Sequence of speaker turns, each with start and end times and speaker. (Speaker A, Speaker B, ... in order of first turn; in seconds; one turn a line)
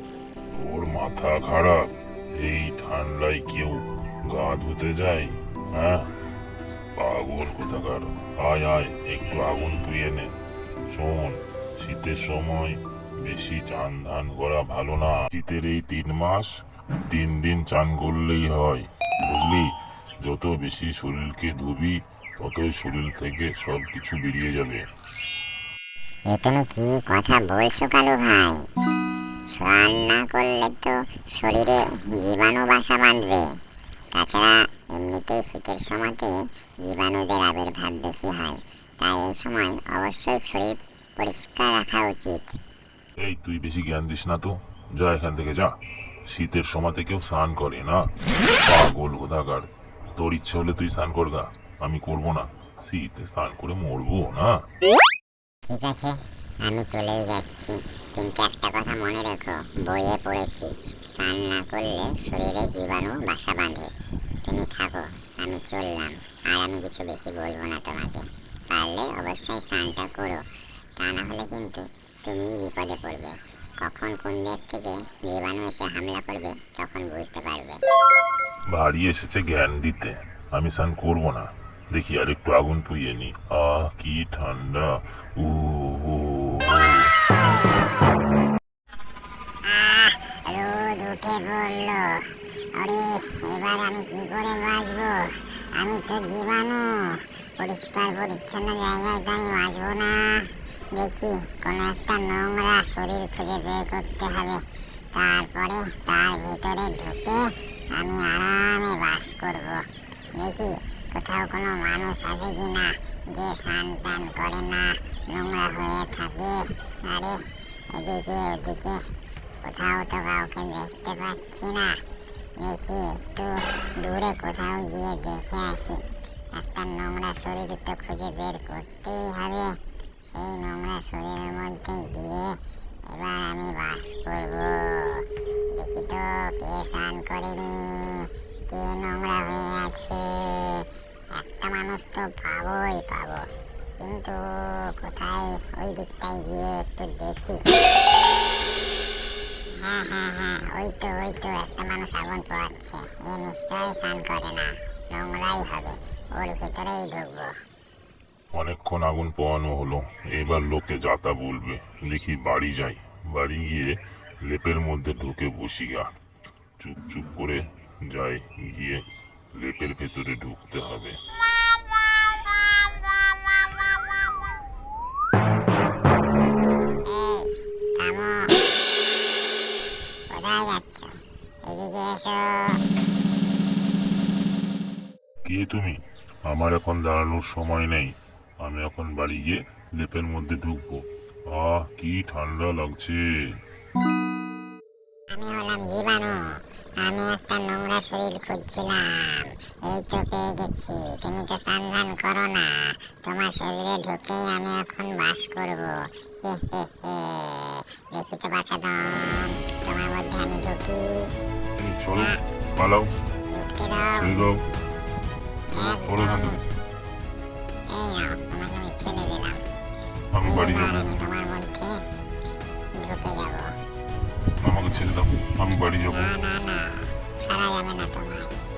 Speaker A: 0.5-6.1
Speaker A: 6.9-10.3
Speaker A: 10.9-16.5
Speaker A: 17.1-24.9
Speaker B: 26.3-28.7
Speaker B: 29.4-33.6
Speaker B: 34.1-42.6
Speaker A: 43.2-54.6
Speaker B: 55.7-77.8
Speaker A: 78.7-87.1
Speaker B: 89.7-122.0
Speaker B: 122.6-147.7
Speaker B: 149.7-157.6
Speaker A: 158.5-166.2
Speaker A: 166.8-171.2
Speaker B: 177.0-178.6
Speaker B: 180.3-182.8
Speaker A: 185.4-193.4
Speaker B: 195.3-211.3
Speaker A: 211.8-213.1
Speaker B: 213.5-214.5
Speaker A: 214.2-214.6
Speaker A: 215.7-216.6
Speaker B: 215.7-216.6
Speaker B: 217.9-219.6
Speaker A: 220.3-221.2
Speaker B: 220.4-222.1
Speaker B: 222.9-223.8
Speaker A: 224.6-226.4
Speaker B: 226.1-228.5